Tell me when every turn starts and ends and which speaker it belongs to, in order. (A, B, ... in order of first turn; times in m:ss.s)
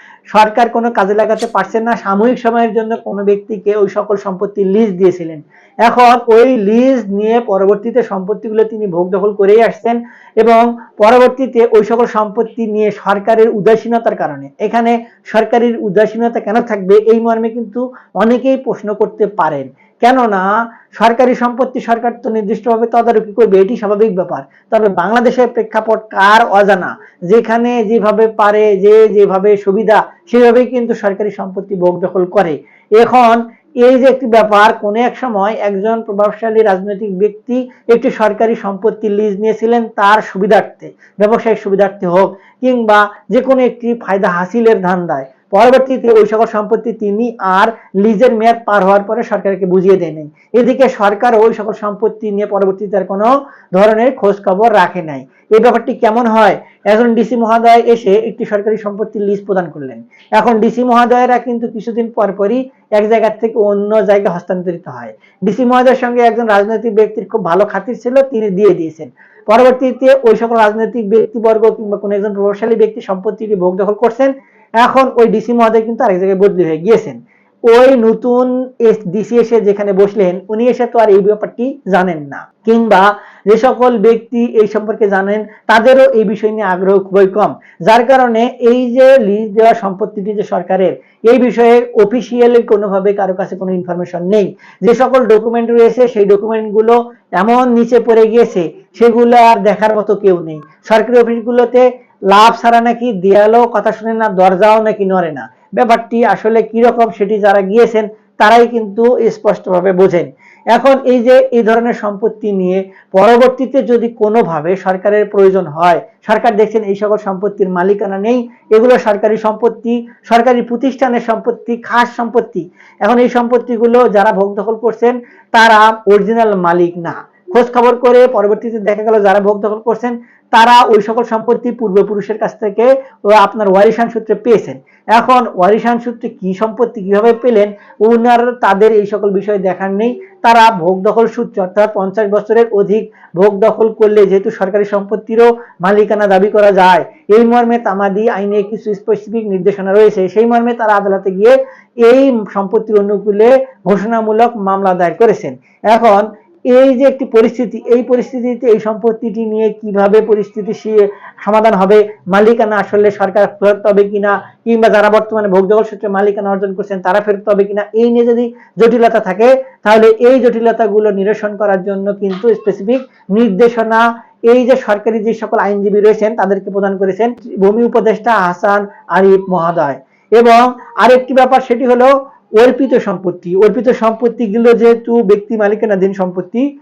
0:00.3-1:17.2 A
1:17.7-3:06.6 A